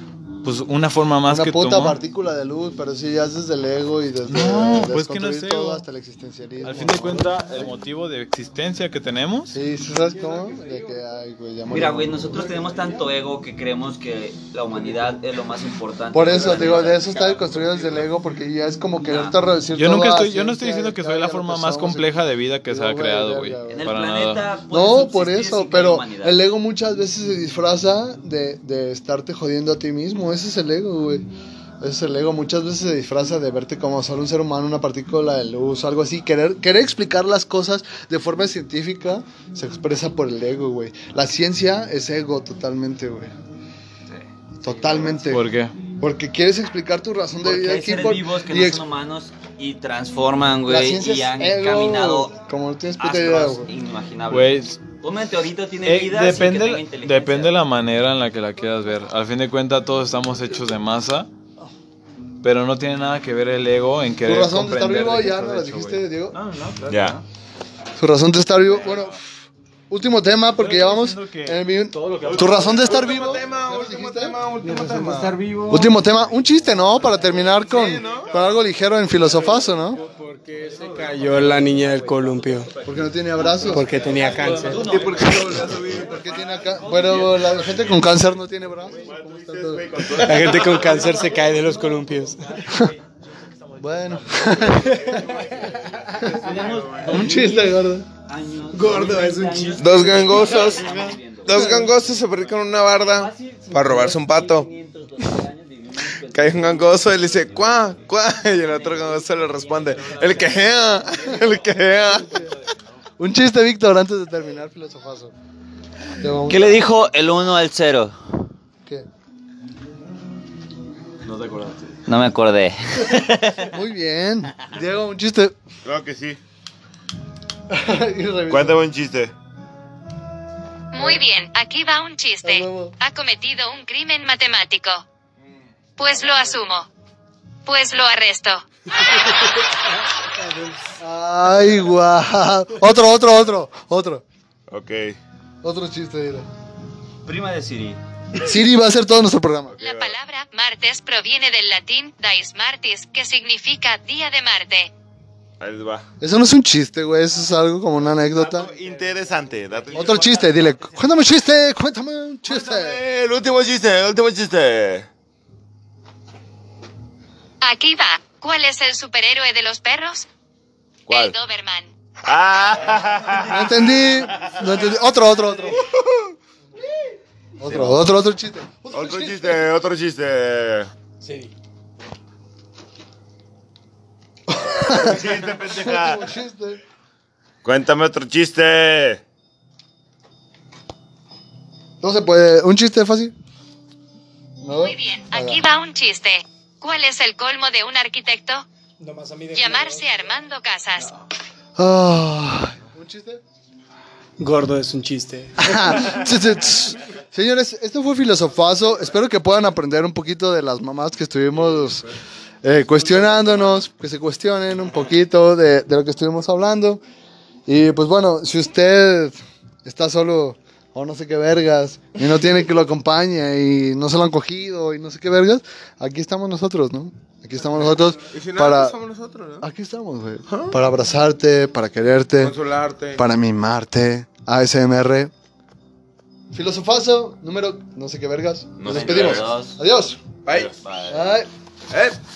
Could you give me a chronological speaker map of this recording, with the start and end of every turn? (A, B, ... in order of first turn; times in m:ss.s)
0:00.4-0:02.0 A
0:01.2-0:07.5 B
0:04.3-0:05.8 A
0:06.6-0:09.6 A
0:09.5-0:12.4 B
0:09.9-0:11.1 C
0:11.7-0:17.0 D
0:12.3-0:13.1 C
0:16.1-0:23.9 B
0:16.4-0:18.1 C
0:19.0-0:19.4 D
0:19.8-0:24.5 A
0:23.7-0:26.4 D
0:24.7-0:31.3 B
0:31.8-0:43.3 B
0:44.1-0:45.2 D
0:44.6-0:45.5 B
0:45.3-0:45.8 A
0:46.0-0:48.8 B
0:47.4-0:52.4 D
0:50.7-0:53.7 B
0:53.0-0:57.6 D
0:54.3-0:54.8 A
0:55.8-1:01.3 A
1:02.4-1:07.2 A
1:04.2-1:06.4 B
1:06.9-1:07.2 E
1:08.0-1:09.2 B
1:09.9-1:14.4 B
1:10.6-1:12.9 A
1:12.3-1:12.7 E
1:12.7-1:15.4 F
1:14.6-1:15.9 C
1:15.7-1:20.0 B
1:17.6-1:18.3 F
1:19.2-1:22.7 C
1:21.2-1:21.6 A
1:22.8-1:23.9 B
1:23.7-1:25.1 C
1:24.0-1:25.1 A
1:24.2-1:25.6 D
1:24.8-1:26.3 F
1:25.9-1:30.2 B
1:26.8-1:28.2 E
1:28.9-1:31.4 E
1:30.1-1:32.7 C
1:31.6-1:32.1 A
1:32.6-1:32.9 A
1:33.8-1:35.4 B
1:33.8-1:35.8 A
1:34.8-1:35.2 C
1:35.8-1:36.4 C
1:36.1-1:41.8 D
1:36.4-1:37.3 E
1:37.1-1:38.1 B
1:38.7-1:40.4 C
1:39.8-1:44.7 F
1:41.5-1:41.9 B
1:43.0-1:47.2 D
1:46.3-1:52.5 F
1:48.4-1:50.6 D
1:53.2-1:55.3 B
1:56.2-1:56.8 B
1:56.5-1:58.5 D
2:01.2-2:02.0 A
2:02.1-2:03.7 D
2:03.7-2:05.6 B
2:05.8-2:06.4 E
2:07.7-2:08.8 B
2:08.5-2:09.3 E
2:10.9-2:15.0 G
2:12.4-2:13.0 B
2:16.0-2:16.9 G
2:17.7-2:18.6 G
2:20.3-2:20.9 C
2:21.0-2:24.2 B
2:24.7-2:25.2 E
2:25.6-2:26.5 B
2:27.2-2:28.0 D
2:28.4-2:29.8 B
2:29.8-2:30.2 E
2:29.8-2:34.9 G
2:35.6-2:36.1 E
2:36.2-2:38.7 B
2:38.4-2:40.4 E
2:39.9-2:43.0 B
2:42.5-2:45.1 E
2:47.6-2:50.3 G
2:51.1-2:51.4 E
2:51.1-2:51.9 G
2:52.2-2:54.8 E
2:53.4-2:55.8 B
2:57.6-2:59.6 B
2:58.9-3:00.9 E
3:01.2-3:01.5 C
3:04.5-3:06.8 B
3:04.8-3:06.3 E
3:07.6-3:09.2 E
3:12.0-3:13.3 B
3:14.6-3:15.6 B
3:14.8-3:18.6 G
3:19.0-3:20.4 C
3:19.5-3:21.1 G
3:21.8-3:23.4 B
3:24.4-3:25.9 C
3:25.6-3:32.1 B
3:32.6-3:37.0 B
3:37.7-3:49.0 B
3:48.3-3:49.6 F
3:49.6-3:52.6 B
3:50.5-3:50.8 F
3:52.4-3:53.2 F
3:53.2-3:55.3 B
3:56.5-4:00.2 B
3:58.8-3:59.6 E
3:58.8-3:59.8 D
4:00.5-4:00.7 F
4:00.5-4:00.7 E
4:00.8-4:01.1 D
4:01.1-4:01.5 B
4:01.9-4:02.2 F